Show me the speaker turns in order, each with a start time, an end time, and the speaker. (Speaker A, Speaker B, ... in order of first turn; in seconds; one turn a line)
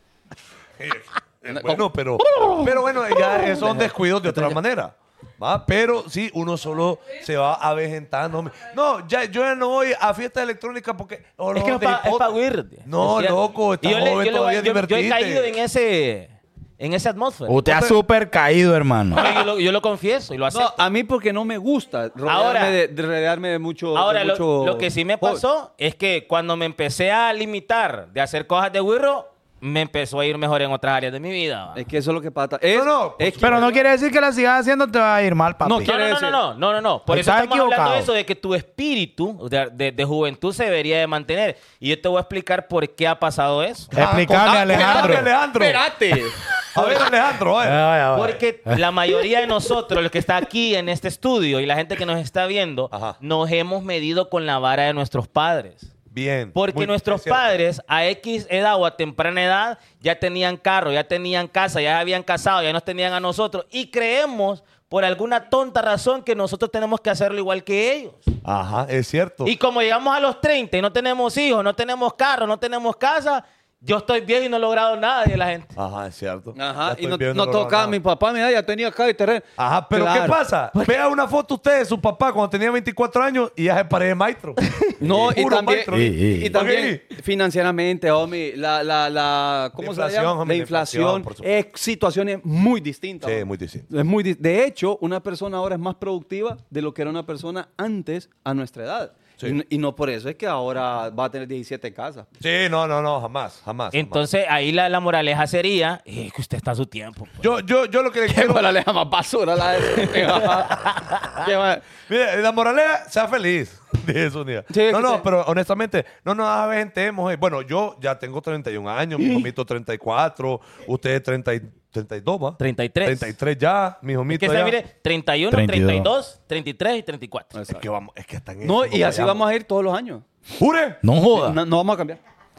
Speaker A: 0.8-15.5
Speaker B: 1.5-4.6
Speaker C: 11.5-17.8
Speaker D: 17.5-19.4
Speaker C: 19.1-20.8
Speaker B: 20.5-25.4
Speaker C: 22.2-22.8
Speaker C: 23.9-31.8
Speaker B: 31.7-33.7
Speaker A: 32.7-33.8
Speaker D: 33.4-35.9
Speaker B: 35.6-36.4
Speaker C: 35.8-43.9
Speaker D: 37.1-38.1
Speaker D: 43.9-45.3
Speaker A: 43.9-45.8
Speaker B: 44.4-47.0
Speaker A: 46.7-47.9
Speaker D: 47.6-48.9
Speaker C: 48.1-55.9
Speaker A: 52.9-53.2
Speaker A: 56.1-57.4
Speaker C: 56.5-68.2
Speaker A: 68.4-69.5
Speaker C: 69.4-75.8
Speaker A: 75.8-78.0
Speaker B: 76.5-80.4
Speaker A: 79.6-87.0
Speaker C: 80.7-81.0
Speaker B: 85.0-102.3
Speaker D: 85.9-86.6
Speaker A: 89.8-91.5
Speaker A: 93.2-93.9
Speaker A: 102.4-104.2
Speaker C: 103.9-107.5
Speaker A: 107.4-108.7
Speaker B: 108.3-111.8
Speaker C: 110.7-111.2
Speaker A: 112.1-124.8
Speaker B: 114.7-115.3
Speaker C: 122.6-123.3
Speaker C: 124.3-127.5
Speaker D: 125.5-126.1
Speaker B: 127.5-127.8
Speaker A: 127.7-129.4
Speaker B: 128.6-130.2
Speaker A: 130.6-131.0
Speaker D: 131.0-131.6
Speaker B: 131.3-132.2